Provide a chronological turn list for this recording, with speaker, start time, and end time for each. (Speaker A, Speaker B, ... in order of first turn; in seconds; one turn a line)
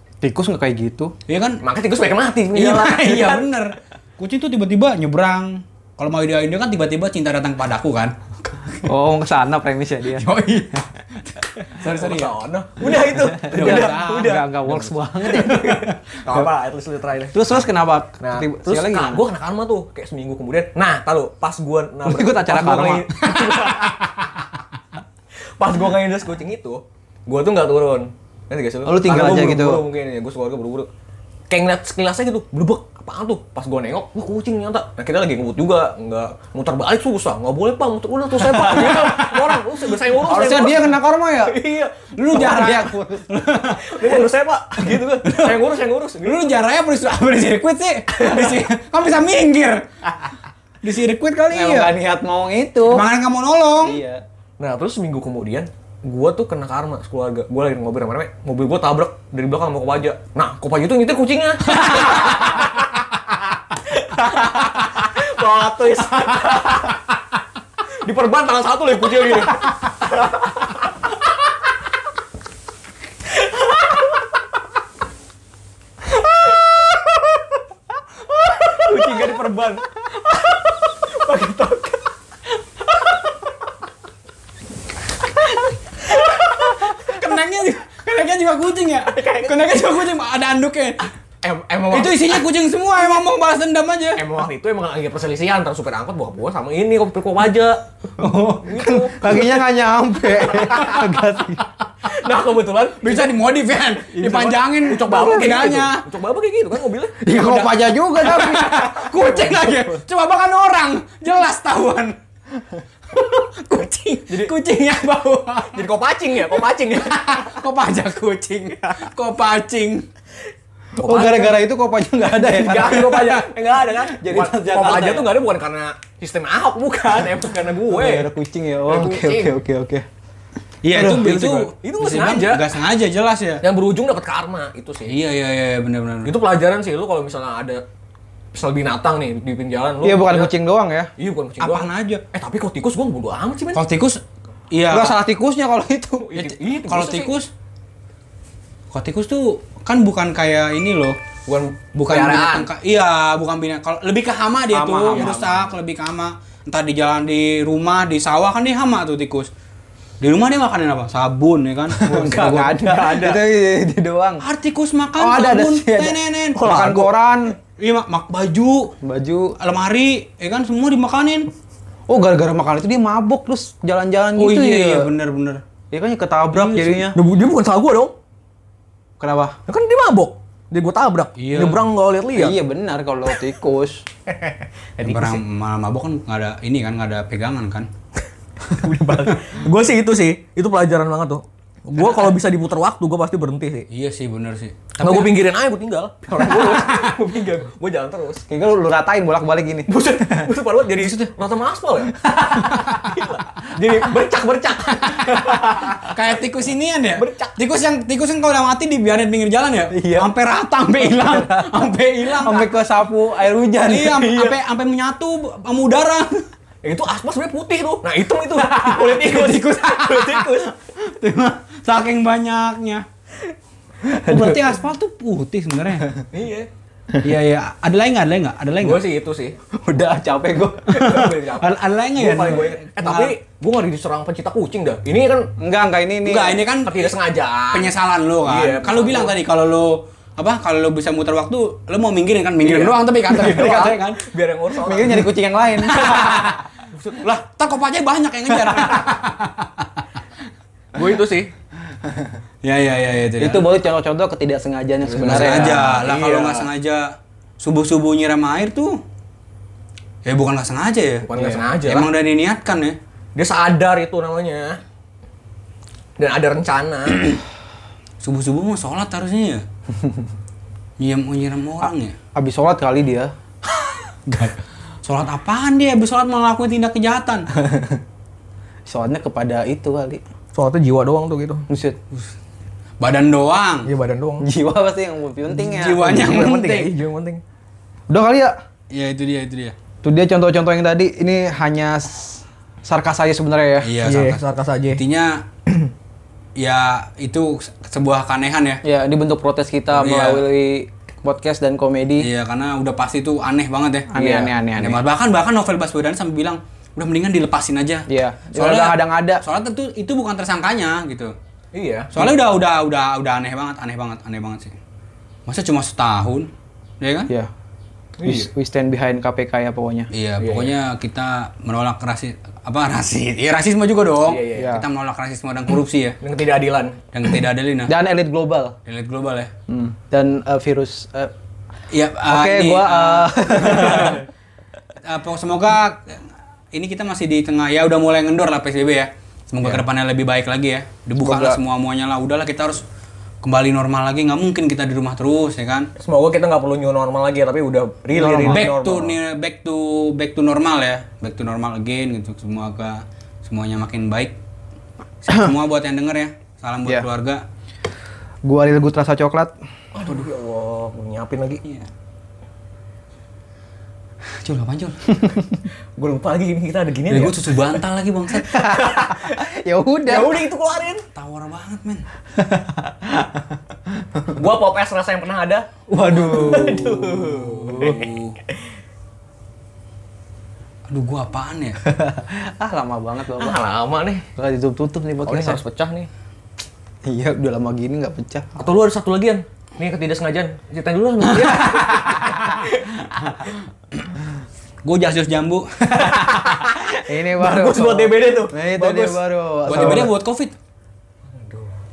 Speaker A: 0.2-1.1
Speaker B: 1.3-1.6
Speaker C: 1.6-3.5
Speaker B: 2.5-8.8
Speaker A: 8.8-10.3
Speaker B: 10.1-12.3
Speaker C: 11.8-17.7
Speaker A: 12.9-15.7
Speaker B: 13.4-16.4
Speaker A: 17.3-19.2
Speaker C: 18.2-24.1
Speaker A: 22.0-23.1
Speaker B: 23.2-24.1
Speaker C: 25.6-30.9
Speaker A: 28.8-29.8
Speaker C: 31.5-42.7
Speaker B: 38.4-39.6
Speaker A: 40.2-41.6
Speaker B: 42.1-44.2
Speaker A: 42.3-43.3
Speaker C: 43.8-46.5
Speaker B: 44.8-45.6
Speaker B: 46.2-50.3
Speaker C: 48.2-48.6
Speaker B: 50.8-51.9
Speaker A: 51.5-53.0
Speaker B: 52.9-54.0
Speaker A: 53.8-54.2
Speaker C: 54.6-63.2
Speaker C: 63.7-67.0
Speaker C: 68.0-70.7
Speaker B: 78.6-79.8
Speaker C: 78.8-79.5
Speaker C: 81.3-81.9
Speaker B: 86.0-91.1
Speaker C: 89.1-89.9
Speaker C: 91.4-92.4
Speaker B: 91.9-94.2
Speaker C: 94.2-97.8
Speaker B: 98.2-98.8
Speaker C: 98.6-99.6
Speaker A: 98.8-101.6
Speaker C: 100.5-100.9
Speaker B: 100.7-101.1
Speaker C: 102.0-103.3
Speaker B: 103.0-106.0
Speaker C: 104.1-107.2
Speaker A: 107.2-109.9
Speaker B: 107.3-112.1
Speaker B: 113.1-115.9
Speaker C: 115.7-117.5
Speaker B: 116.5-120.0
Speaker C: 121.0-121.6
Speaker A: 121.0-123.4
Speaker C: 122.3-128.3
Speaker B: 122.9-123.5
Speaker A: 124.1-125.4
Speaker A: 127.9-130.0
Speaker C: 128.9-129.6
Speaker B: 130.8-133.6
Speaker C: 130.9-132.8
Speaker C: 133.6-135.2
Speaker B: 135.1-136.3
Speaker C: 136.2-137.8
Speaker C: 138.5-140.5
Speaker A: 140.0-141.1
Speaker C: 141.2-143.8
Speaker B: 141.6-142.2
Speaker B: 143.7-144.2
Speaker B: 144.7-145.2
Speaker A: 144.9-146.3
Speaker C: 146.3-147.3
Speaker B: 146.3-147.5
Speaker B: 148.9-151.2
Speaker C: 151.5-152.7
Speaker B: 152.0-159.5
Speaker A: 154.7-155.3
Speaker C: 155.0-155.8
Speaker B: 160.2-162.7
Speaker A: 161.9-164.4
Speaker C: 162.1-163.4
Speaker B: 164.4-167.1
Speaker A: 165.2-167.5
Speaker C: 166.5-167.1
Speaker B: 167.8-168.9
Speaker A: 169.0-169.5
Speaker B: 169.6-171.5
Speaker A: 172.1-175.1
Speaker B: 174.4-175.6
Speaker A: 175.9-177.2
Speaker B: 176.5-177.1
Speaker C: 177.1-178.1
Speaker A: 179.2-179.6
Speaker C: 179.7-182.6
Speaker B: 181.3-181.9
Speaker A: 182.3-184.0
Speaker B: 185.0-187.9
Speaker A: 185.0-185.4
Speaker C: 188.7-193.9
Speaker B: 193.9-195.4
Speaker C: 195.0-198.4
Speaker B: 196.3-197.2
Speaker A: 198.5-200.5
Speaker C: 199.9-206.1
Speaker B: 202.5-203.2
Speaker B: 205.2-212.7
Speaker C: 207.1-207.6
Speaker A: 209.9-210.3
Speaker A: 211.1-214.3
Speaker B: 213.7-216.4
Speaker C: 214.2-214.6
Speaker C: 216.8-220.7
Speaker B: 218.4-223.0
Speaker A: 224.2-224.7
Speaker B: 224.2-226.1
Speaker C: 226.3-226.7
Speaker B: 227.2-229.1
Speaker C: 228.8-229.6
Speaker A: 229.8-230.9
Speaker C: 230.9-235.5
Speaker B: 230.9-233.3
Speaker A: 235.6-236.6
Speaker B: 236.2-237.1
Speaker C: 236.8-239.4
Speaker B: 237.7-244.3
Speaker C: 242.6-245.3
Speaker A: 244.7-246.5
Speaker B: 245.8-246.6
Speaker C: 246.9-247.3
Speaker B: 247.2-249.9
Speaker C: 250.9-251.5
Speaker B: 252.6-253.7
Speaker A: 253.4-255.9
Speaker C: 255.0-256.7
Speaker B: 255.2-259.0
Speaker B: 260.2-261.3
Speaker C: 261.2-262.1
Speaker B: 261.8-263.0
Speaker C: 263.3-264.8
Speaker C: 266.2-267.4
Speaker B: 268.2-269.6
Speaker B: 271.0-272.1
Speaker A: 272.4-273.3
Speaker B: 274.2-277.5
Speaker A: 277.6-278.0
Speaker A: 278.9-280.2
Speaker C: 280.5-281.6
Speaker A: 281.7-282.0
Speaker B: 283.0-283.9
Speaker C: 283.9-284.4
Speaker A: 284.4-286.2
Speaker B: 285.5-286.9
Speaker C: 285.9-287.4
Speaker A: 288.1-288.6
Speaker B: 288.9-289.7
Speaker A: 290.0-293.9
Speaker B: 293.8-295.4
Speaker C: 294.0-295.0
Speaker B: 296.6-298.8
Speaker A: 298.8-302.3
Speaker B: 299.9-300.4
Speaker B: 302.2-304.2
Speaker A: 304.1-305.0
Speaker C: 304.2-304.5
Speaker B: 304.8-311.3
Speaker A: 308.1-309.4
Speaker C: 311.7-312.3
Speaker B: 312.1-314.7
Speaker B: 315.5-316.5
Speaker B: 317.0-317.3
Speaker C: 318.2-318.5
Speaker A: 318.2-320.1
Speaker B: 320.1-326.2
Speaker C: 320.4-320.7
Speaker C: 324.2-324.8
Speaker A: 324.5-324.9
Speaker C: 326.2-327.1
Speaker B: 327.1-327.9
Speaker A: 327.9-328.7
Speaker B: 328.8-329.5
Speaker A: 329.7-331.3
Speaker B: 331.9-334.2
Speaker A: 332.2-334.2
Speaker C: 333.6-334.1
Speaker B: 335.0-336.2
Speaker B: 336.7-342.8
Speaker A: 341.2-341.6
Speaker B: 343.4-345.9
Speaker C: 346.0-349.1
Speaker A: 348.1-348.7
Speaker B: 348.4-354.4
Speaker B: 355.2-357.4
Speaker A: 358.4-359.6
Speaker C: 359.9-361.6
Speaker B: 364.4-365.2
Speaker C: 365.9-367.8
Speaker B: 367.1-368.7
Speaker A: 368.4-370.4
Speaker C: 368.5-369.4
Speaker C: 370.1-371.0
Speaker B: 371.1-372.0
Speaker A: 372.4-373.4
Speaker C: 374.3-378.1
Speaker A: 375.9-378.0
Speaker B: 377.2-378.4
Speaker B: 380.9-381.8
Speaker A: 381.8-383.6
Speaker C: 383.4-384.2
Speaker A: 384.4-385.6
Speaker C: 385.2-386.1
Speaker A: 387.1-388.5
Speaker C: 388.6-392.6
Speaker B: 391.3-392.7
Speaker B: 394.8-396.2
Speaker A: 395.9-400.1
Speaker C: 396.2-400.1
Speaker B: 399.7-400.5
Speaker C: 401.4-401.7